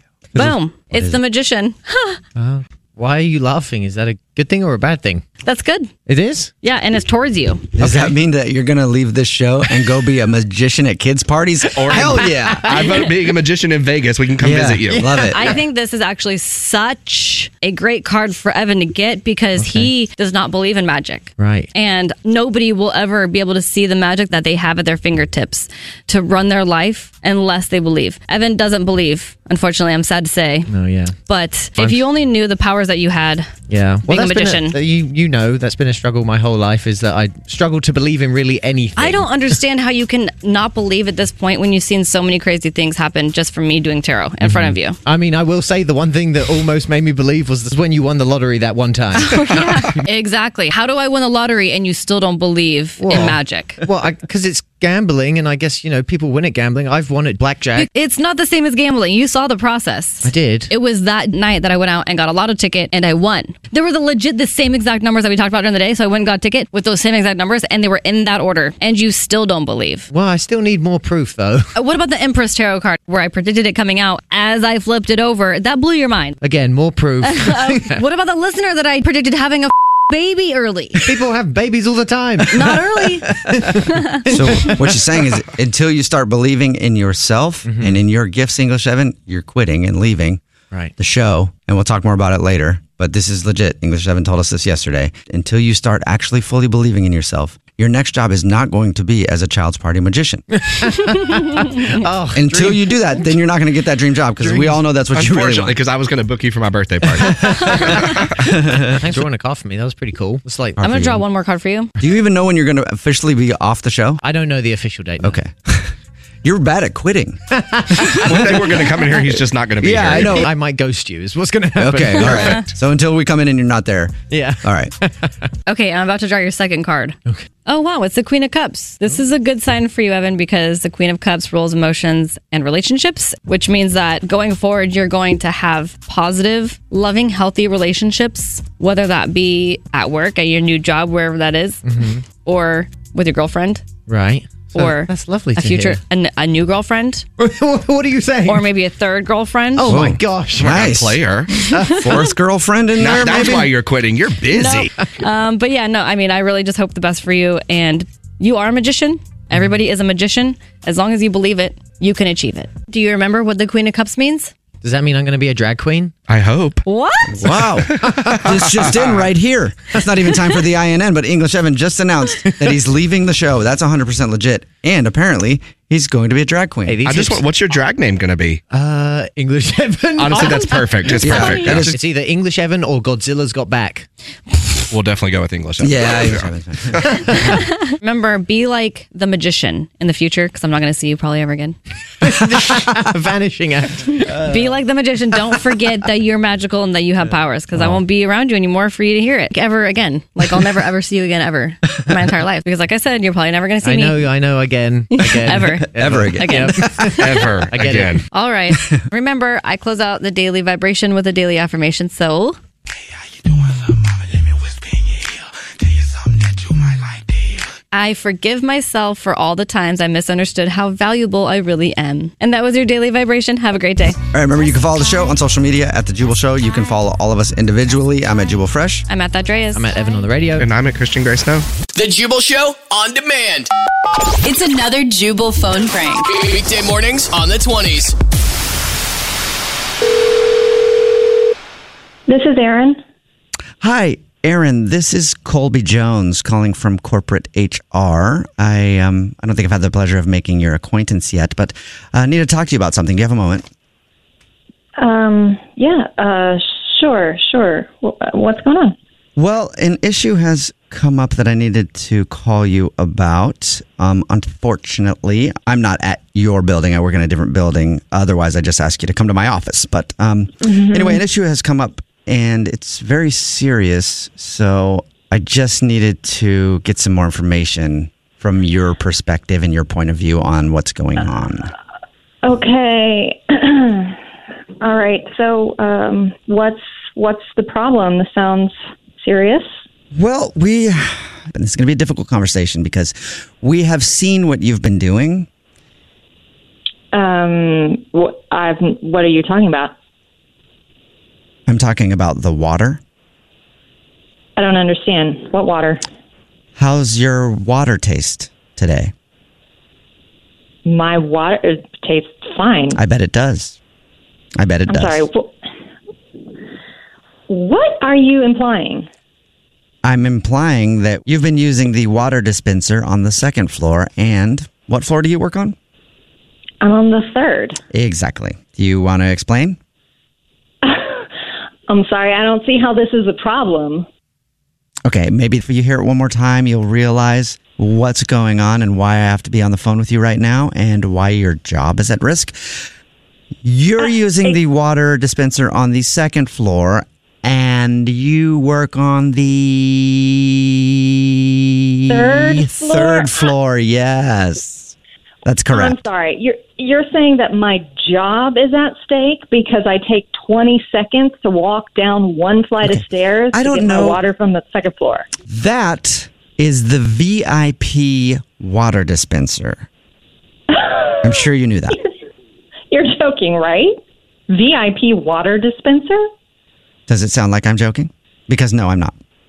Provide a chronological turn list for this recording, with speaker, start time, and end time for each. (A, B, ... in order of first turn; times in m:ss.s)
0:00.3-0:01.2 A
0:00.4-0:02.2 B
0:02.4-0:05.2 C
0:05.4-0:05.9 B
0:06.0-0:06.5 C
0:06.6-0:07.7 B
0:07.8-0:12.9 A
0:11.8-0:15.1 D
0:11.8-0:13.3 C
0:14.4-0:15.4 A
0:14.9-0:15.6 C
0:15.3-0:30.7 B
0:19.6-0:19.9 C
0:21.4-0:21.7 C
0:30.7-0:31.1 C
0:31.3-0:33.5 B
0:33.7-0:39.5 C
0:34.0-0:34.8 B
0:39.0-0:45.0 B
0:44.4-0:50.0 C
0:49.1-0:53.8 B
0:53.0-0:57.9 C
0:57.7-1:10.1 B
1:00.2-1:00.7 C
1:10.1-1:11.7 C
1:11.7-1:16.4 B
1:16.4-1:18.0 C
1:17.2-1:21.0 B
1:21.0-1:22.8 C
1:22.5-1:23.4 B
1:23.5-1:25.0 C
1:23.9-1:24.2 B
1:24.3-1:30.4 A
1:27.6-1:28.0 C
1:31.0-1:40.4 A
1:40.5-1:43.2 C
1:42.3-1:45.8 A
1:44.4-1:44.8 C
1:45.1-1:48.3 D
1:47.2-1:47.6 C
1:48.4-1:49.2 A
1:48.9-1:51.2 C
1:50.8-1:51.9 B
1:52.0-1:54.2 A
1:54.2-1:55.4 C
1:55.2-1:55.9 A
1:56.4-1:57.4 A
1:57.6-1:58.2 C
1:58.1-2:00.4 D
1:58.3-1:58.7 A
1:59.8-2:00.5 A
2:00.1-2:02.6 C
2:01.8-2:04.9 A
2:04.3-2:05.3 C
2:05.7-2:21.8 B
2:21.8-2:22.2 C
2:22.4-2:23.8 B
2:24.1-2:26.0 C
2:24.7-2:27.2 B
2:27.4-2:28.7 C
2:28.4-2:30.0 B
2:29.8-2:30.8 C
2:29.8-2:31.2 A
2:30.6-2:31.6 D
2:31.7-2:32.0 B
2:31.7-2:32.2 C
2:32.0-2:33.7 A
2:33.0-2:34.9 D
2:34.5-2:44.5 B
2:44.8-2:46.1 C
2:46.3-2:46.8 D
2:46.8-2:47.6 B
2:47.3-2:57.0 A
2:48.0-2:48.6 C
2:52.5-2:52.8 C
2:56.9-2:57.4 C
2:57.0-2:58.6 D
2:58.7-3:04.1 C
3:00.2-3:02.0 D
3:01.2-3:02.0 A
3:04.9-3:07.0 D
3:05.8-3:07.0 A
3:07.4-3:11.8 B
3:12.2-3:14.8 C
3:14.2-3:24.3 B
3:17.7-3:18.0 C
3:23.8-3:28.2 C
3:25.1-3:27.5 B
3:25.9-3:26.8 A
3:27.2-3:28.2 D
3:28.3-3:32.6 B
3:37.9-3:44.2 B
3:44.3-3:49.0 A
3:49.1-3:49.9 B
3:49.7-3:50.7 C
3:50.6-3:51.6 D
3:51.9-3:53.7 E
3:54.4-3:56.4 F
3:56.3-3:58.1 E
4:02.3-4:03.0 G
4:03.8-4:13.6 A
4:15.0-4:18.9 G
4:19.4-4:41.7 A
4:30.6-4:31.2 G
4:42.4-4:44.2 G
4:44.8-4:49.7 G
4:50.1-4:55.5 A
4:57.1-4:59.9 G
5:01.7-5:03.0 A
5:04.6-5:06.0 G
5:06.8-5:09.1 A
5:10.8-5:13.0 G
5:12.9-5:13.8 A
5:14.6-5:15.3 A
5:14.9-5:15.5 G
5:17.5-5:19.1 G
5:20.0-5:25.8 A
5:26.8-5:27.8 G
5:27.9-5:29.8 A
5:30.8-5:31.3 G
5:31.9-5:34.0 G
5:35.0-5:42.9 A
5:43.6-5:56.1 A
5:52.1-5:53.4 G
5:55.7-6:05.3 G
6:02.8-6:04.2 A
6:05.5-6:09.9 A
6:10.7-6:11.4 G
6:11.2-6:12.0 A
6:12.9-6:14.0 G
6:14.5-6:16.2 G
6:17.1-6:19.2 A